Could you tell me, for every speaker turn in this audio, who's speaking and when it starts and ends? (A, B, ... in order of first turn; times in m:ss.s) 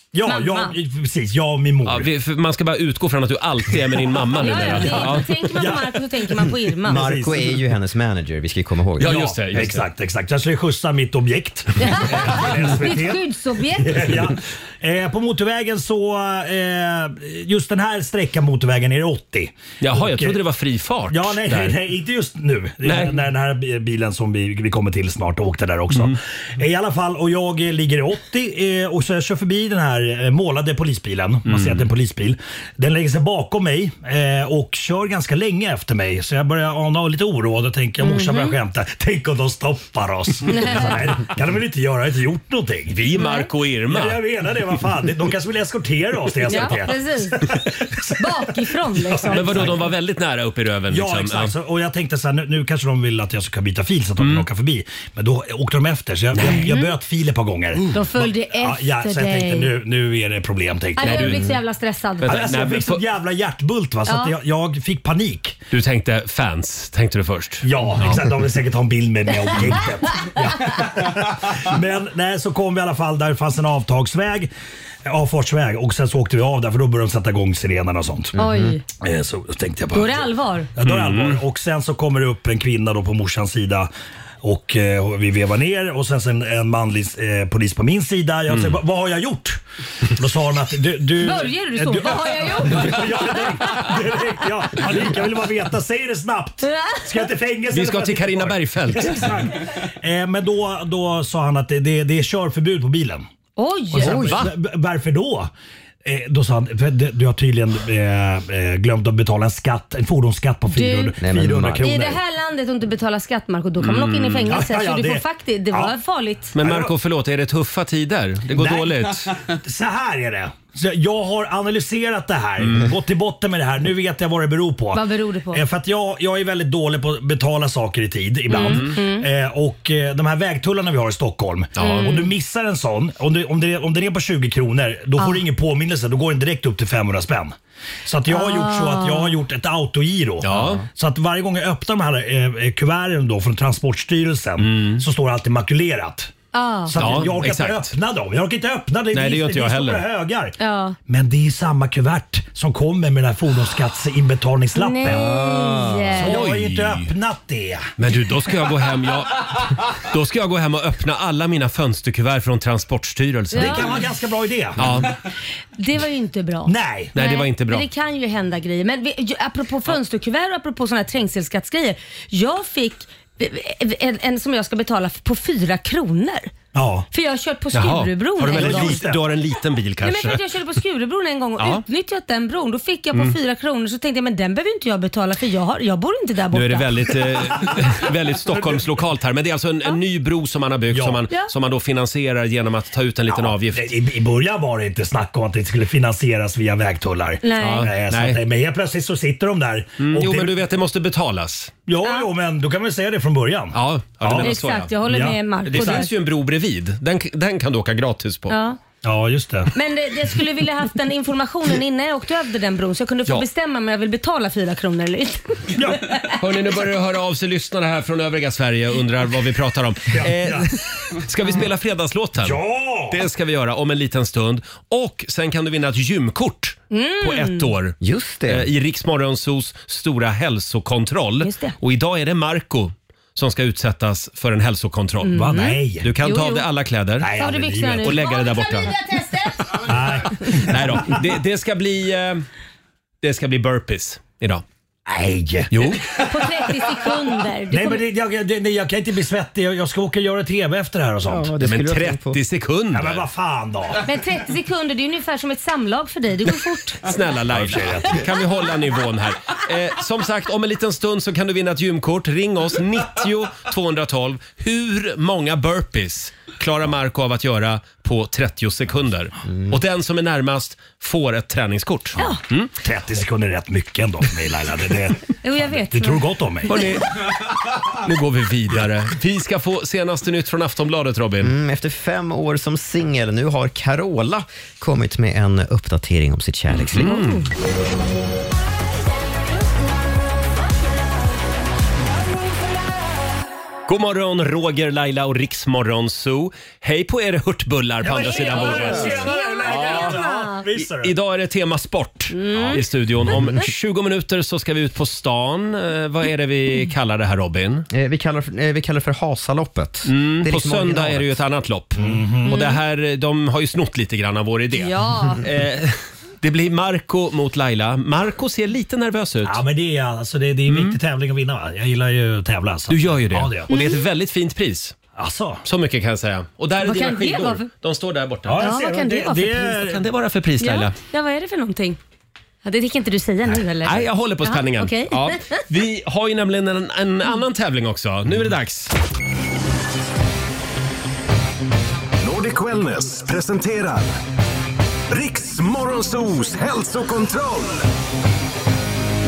0:00.1-0:02.1 A
0:00.2-0:00.8 B
0:01.8-0:05.4 C
0:04.2-0:07.6 A
0:04.4-0:07.1 B
0:06.8-0:09.4 D
0:09.0-0:09.8 C
0:09.0-0:13.2 A
0:11.8-0:14.3 B
0:13.8-0:20.4 A
0:19.8-0:21.8 C
0:21.1-0:43.0 A
0:22.8-0:23.2 C
0:31.5-0:31.9 C
0:38.0-0:38.6 B
0:40.5-0:41.1 B
0:43.0-0:44.2 C
0:43.2-0:43.5 B
0:43.9-0:49.9 A
0:46.4-0:47.5 B
0:48.2-0:49.8 B
0:49.3-0:51.5 C
0:50.9-1:01.4 A
0:54.2-0:54.5 C
0:56.5-0:56.9 B
0:57.9-0:59.7 B
1:01.0-1:02.6 B
1:01.0-1:01.4 C
1:02.2-1:03.0 C
1:02.3-1:05.6 A
1:04.1-1:04.4 B
1:05.7-1:08.2 C
1:07.6-1:14.5 A
1:15.1-1:18.3 A
1:18.3-1:18.8 D
1:18.4-1:18.8 B
1:19.0-1:23.9 A
1:19.9-1:20.7 B
1:20.8-1:21.4 C
1:24.4-1:43.3 A
1:28.5-1:28.8 C
1:31.2-1:33.8 B
1:36.7-1:37.0 B
1:37.7-1:39.3 C
1:43.6-1:44.3 B
1:43.9-1:45.5 A
1:44.0-1:44.4 D
1:44.0-1:44.5 C
1:46.0-1:52.2 A
1:50.7-1:51.2 B
1:51.2-1:51.9 D
1:51.8-1:56.5 B
1:53.8-1:54.6 C
1:54.5-1:56.0 A
1:56.6-1:59.3 C
1:56.6-1:56.9 A
1:58.5-2:17.6 A
2:02.6-2:02.9 C
2:04.9-2:05.6 B
2:08.5-2:09.3 B
2:08.5-2:09.0 C
2:11.8-2:12.1 C
2:11.8-2:12.3 B
2:15.2-2:15.4 B
2:18.1-2:26.3 A
2:18.3-2:19.4 B
2:20.4-2:20.8 C
2:24.6-2:25.0 C
2:26.5-2:27.3 B
2:26.9-2:35.3 A
2:27.0-2:27.9 C
2:29.1-2:30.0 C
2:30.6-2:31.0 B
2:34.8-2:36.4 B
2:35.1-2:36.3 D
2:36.2-2:37.9 A
2:36.2-2:37.1 C
2:38.0-2:43.9 C
2:43.5-2:44.0 B
2:43.5-2:45.1 A
2:44.8-2:45.1 C
2:45.8-2:56.5 B
2:46.7-2:47.1 A
2:47.1-2:47.9 C
2:56.7-2:57.1 A
2:57.1-2:59.0 B
2:57.7-3:00.4 C
2:58.5-2:59.2 A
3:00.0-3:06.9 B
3:01.6-3:01.8 C
3:06.5-3:13.9 C
3:08.5-3:08.8 A
3:10.9-3:11.2 A
3:13.3-3:20.6 A
3:17.4-3:17.9 B
3:17.6-3:18.4 C
3:20.0-3:21.7 C
3:21.9-3:24.5 A
3:22.0-3:22.3 B
3:23.7-3:24.9 C
3:24.4-3:26.1 B
3:25.0-3:26.1 A
3:25.7-3:28.6 C
3:28.5-3:28.8 B
3:29.0-3:29.7 A
3:29.7-3:36.2 B
3:35.8-3:36.1 A
3:36.4-3:48.0 C
3:40.1-3:40.7 A
3:42.4-3:43.2 A
3:46.9-3:47.7 B
3:48.0-3:48.7 D
3:48.5-3:55.3 C
3:51.4-3:51.8 B
3:55.2-3:56.7 B
3:55.3-3:56.1 A
3:56.0-3:57.4 C
3:57.2-3:58.2 A
3:57.4-4:00.5 B
3:58.0-3:58.9 C
3:59.8-4:01.2 A
4:00.4-4:02.4 C
4:03.2-4:04.6 C
4:05.1-4:06.3 A
4:05.7-4:06.0 C
4:06.2-4:08.0 B
4:07.7-4:11.5 A
4:11.2-4:12.4 D
4:11.6-4:13.2 C
4:12.9-4:14.0 A
4:14.0-4:17.0 B
4:17.0-4:32.7 C
4:17.5-4:18.3 A
4:32.8-4:36.7 A
4:35.4-4:36.3 B
4:36.7-4:37.3 C
4:37.9-4:41.5 C
4:41.4-4:47.2 D
4:46.7-4:47.5 C
4:53.9-5:00.2 C
4:58.0-5:01.1 A
4:58.3-5:00.6 B
5:00.8-5:07.9 C
5:02.3-5:03.3 B
5:07.9-5:11.3 D
5:10.0-5:19.6 C
5:12.0-5:12.6 A
5:12.5-5:12.8 B
5:14.8-5:15.4 B
5:19.4-5:23.7 A
5:20.7-5:21.0 C
5:22.9-5:25.0 C
5:23.7-5:24.0 B
5:25.2-5:25.6 A
5:25.6-5:28.7 C
5:26.8-5:27.7 B
5:28.5-5:30.0 A
5:28.6-5:29.8 B
5:29.8-5:31.0 C
5:30.6-5:32.0 B
5:32.6-5:35.6 B
5:33.8-5:38.9 C
5:42.2-5:44.1 E
5:45.1-5:47.8 E